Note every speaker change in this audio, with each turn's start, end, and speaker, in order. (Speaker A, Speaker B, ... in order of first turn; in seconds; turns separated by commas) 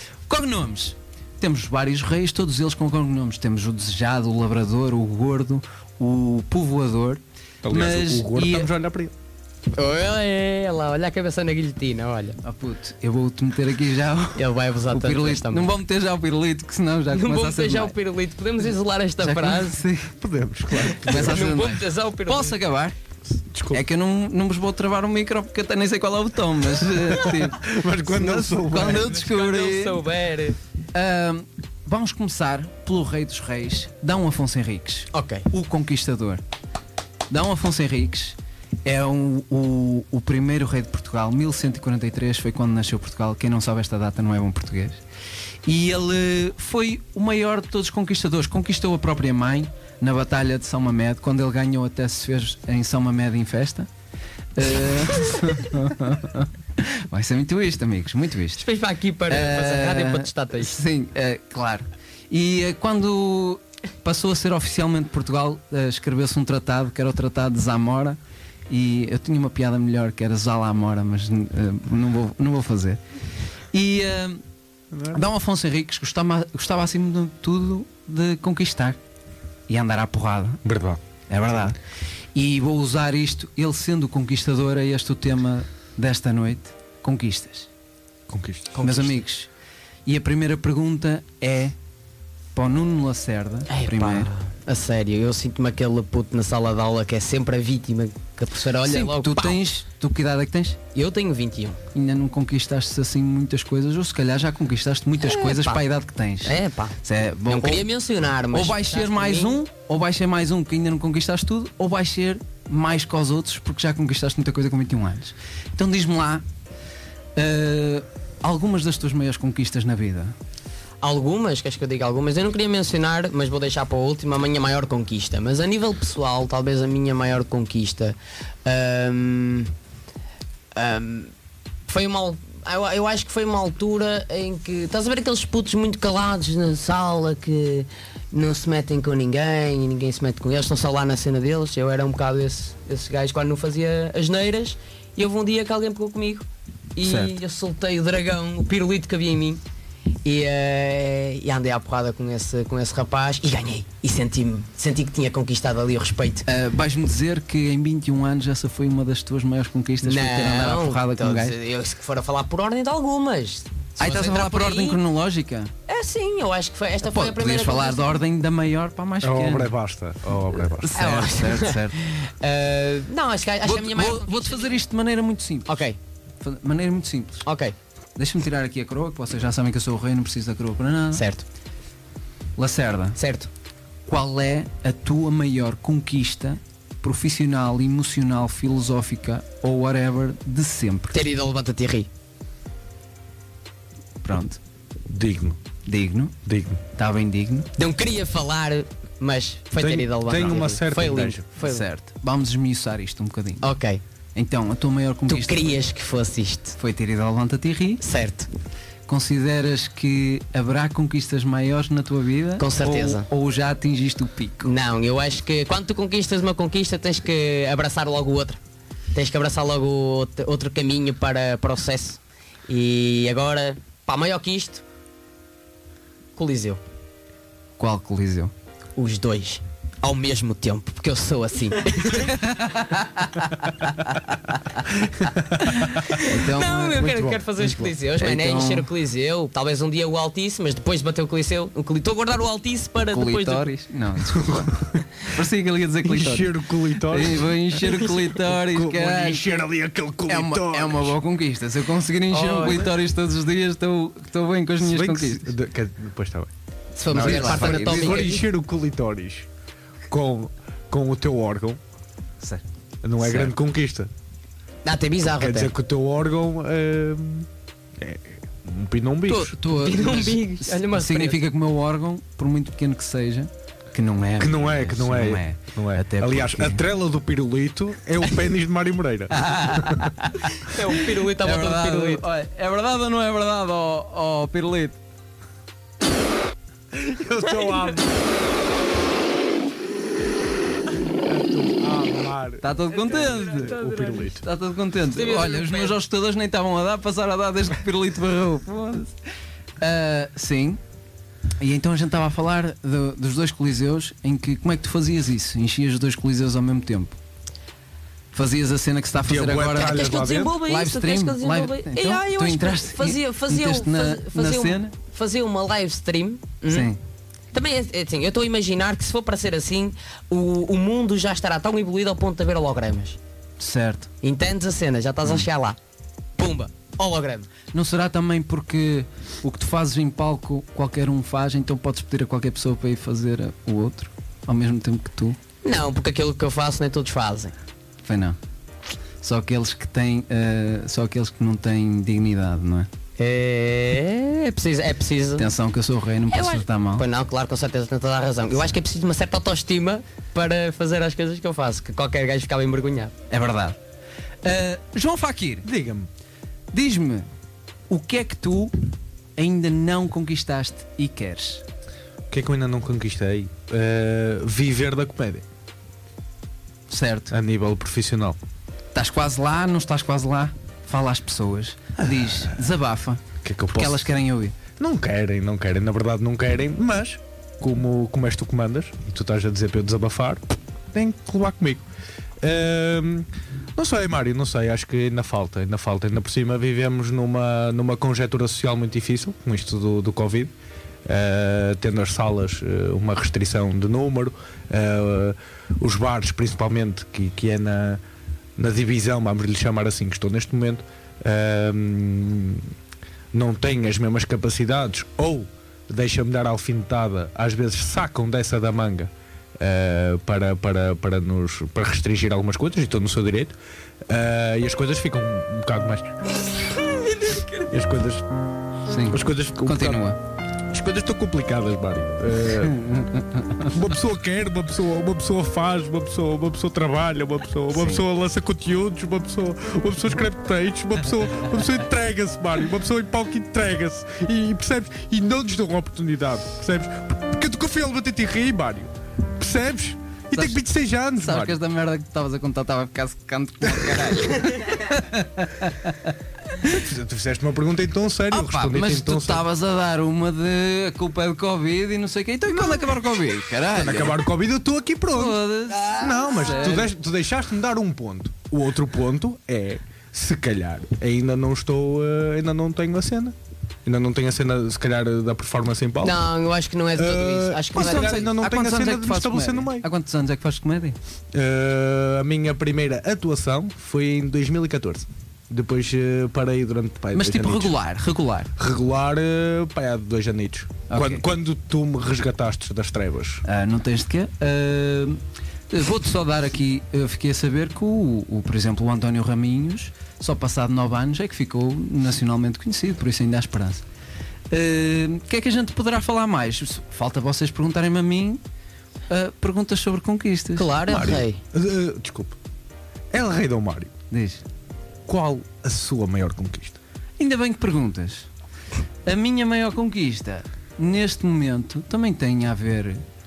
Speaker A: 0.3-8.7, Speaker B: 7.6-9.1, Speaker C: 9.7-12.4, Speaker A: 12.4-17.9, Speaker C: 14.3-15.7, Speaker C: 17.1-19.8, Speaker A: 19.2-20.1, Speaker B: 20.1-21.5, Speaker C: 21.0-22.6, Speaker A: 21.0-23.0, Speaker B: 23.4-23.9, Speaker A: 23.7-30.0, Speaker B: 26.8-29.1, Speaker C: 28.6-30.6, Speaker A: 30.9-36.4, Speaker C: 35.1-35.5, Speaker A: 37.3-45.0, Speaker A: 45.7-53.9, Speaker A: 54.5-58.6, Speaker C: 58.6-60.8, Speaker A: 59.3-73.0, Speaker A: 73.7-74.4, Speaker B: 74.9-75.2, Speaker A: 75.1-79.0, Speaker A: 79.7-80.6, Speaker B: 80.6-81.0, Speaker A: 81.3-81.8, Speaker A: 82.3-87.7, Speaker B: 88.3-88.8, Speaker C: 88.8-89.2, Speaker A: 88.8-89.5, Speaker A: 90.1-91.8, Speaker A: 92.5-94.3, Speaker C: 93.7-99.6, Speaker A: 98.8-100.8, Speaker C: 100.9-101.8, Speaker A: 101.9-107.9, Speaker C: 105.2-105.8, Speaker C: 106.4-109.6, Speaker A: 108.5-116.5, Speaker A: 117.4-120.3, Speaker C: 121.0-129.7, Speaker C: 130.8-131.3, Speaker C: 131.9-149.6, Speaker A: 147.0-147.4, Speaker C: 150.2-156.4, Speaker A: 156.5-161.6, Speaker C: 160.0-165.0, Speaker A: 164.0-165.7, Speaker C: 165.9-168.2, Speaker A: 167.1-169.7, Speaker B: 169.2-171.0, Speaker A: 170.6-172.0, Speaker C: 170.9-174.8, Speaker A: 173.7-175.8, Speaker C: 175.7-176.0, Speaker A: 176.4-177.5, Speaker C: 177.4-177.7, Speaker A: 178.2-181.2, Speaker C: 181.1-181.4, Speaker A: 182.6-183.2, Speaker C: 183.2-183.5, Speaker A: 184.1-191.2, Speaker C: 191.1-192.1, Speaker A: 194.2-194.6, Speaker B: 195.1-195.6, Speaker A: 195.9-196.4, Speaker B: 196.4-196.8, Speaker A: 196.9-197.7, Speaker C: 197.8-201.9, Speaker B: 199.8-201.4, Speaker A: 201.6-203.7, Speaker C: 203.6-204.0, Speaker A: 204.3-205.8, Speaker C: 205.3-206.8, Speaker A: 206.8-208.0, Speaker C: 208.0-208.5, Speaker A: 209.1-214.7, Speaker C: 212.6-213.3, Speaker C: 214.6-218.6, Speaker C: 219.1-224.8, Speaker C: 226.4-226.8, Speaker A: 227.8-228.5, Speaker C: 229.0-233.0, Speaker A: 232.3-233.1, Speaker B: 235.2-235.6, Speaker A: 235.8-238.9, Speaker C: 236.0-243.7, Speaker B: 237.0-237.4, Speaker A: 243.1-249.7, Speaker B: 244.4-244.8, Speaker B: 246.0-247.5, Speaker C: 247.9-248.2, Speaker B: 248.5-251.2, Speaker A: 250.3-255.5, Speaker C: 252.3-252.9, Speaker B: 254.8-256.5, Speaker C: 257.0-258.4, Speaker A: 257.1-258.3, Speaker B: 257.1-259.5, Speaker B: 260.1-261.8, Speaker B: 263.0-264.1, Speaker A: 263.2-263.5, Speaker C: 264.9-265.7, Speaker B: 265.3-269.6, Speaker A: 269.3-276.8, Speaker C: 269.7-271.4, Speaker B: 274.4-280.1, Speaker A: 279.4-280.1, Speaker C: 280.6-282.2, Speaker A: 281.4-285.0, Speaker B: 286.9-288.2, Speaker C: 287.5-288.0, Speaker B: 291.2-294.4, Speaker A: 292.6-299.1, Speaker C: 293.1-294.2, Speaker C: 295.1-296.0, Speaker A: 299.8-300.8, Speaker A: 301.6-307.2, Speaker A: 308.3-314.9, Speaker B: 309.3-310.6, Speaker C: 309.8-316.9, Speaker A: 316.7-317.0, Speaker C: 317.5-323.2, Speaker A: 323.6-324.1, Speaker C: 324.2-325.8, Speaker C: 326.4-327.5, Speaker A: 327.7-335.4, Speaker C: 335.6-337.6, Speaker A: 338.0-338.4, Speaker A: 339.2-342.9, Speaker C: 343.2-345.5, Speaker A: 345.4-347.1, Speaker C: 346.3-353.1, Speaker A: 353.3-353.8, Speaker A: 354.4-355.7, Speaker B: 355.6-356.1, Speaker A: 356.7-357.3, Speaker A: 357.9-358.8, Speaker A: 359.4-361.6, Speaker B: 362.3-365.4, Speaker A: 366.9-367.3, Speaker B: 367.3-368.4, Speaker A: 368.9-374.6, Speaker B: 372.0-372.6, Speaker B: 373.4-374.1, Speaker B: 374.8-381.9, Speaker B: 382.4-390.5, Speaker B: 391.1-398.0, Speaker B: 398.6-402.7, Speaker B: 403.3-413.6, Speaker B: 414.1-416.2, Speaker C: 416.7-417.7, Speaker B: 417.7-418.2, Speaker A: 418.9-420.2, Speaker B: 419.1-420.1, Speaker B: 420.7-422.8, Speaker A: 422.6-423.8, Speaker B: 423.7-441.6, Speaker A: 427.7-428.0, Speaker A: 440.3-440.6, Speaker A: 441.2-446.1, Speaker B: 446.6-449.4, Speaker A: 448.3-454.2, Speaker B: 453.7-466.3, Speaker A: 455.1-456.9, Speaker C: 466.0-468.3, Speaker B: 466.9-469.9, Speaker A: 467.8-471.0, Speaker B: 471.3-477.7, Speaker A: 477.1-478.5, Speaker B: 478.6-483.4, Speaker A: 480.9-481.2, Speaker A: 483.4-493.8, Speaker A: 494.5-498.4, Speaker A: 499.1-500.7, Speaker C: 500.6-501.4, Speaker B: 500.9-502.4, Speaker B: 503.1-503.9, Speaker A: 504.1-504.4, Speaker B: 505.1-506.8, Speaker A: 507.2-508.3, Speaker A: 509.1-513.0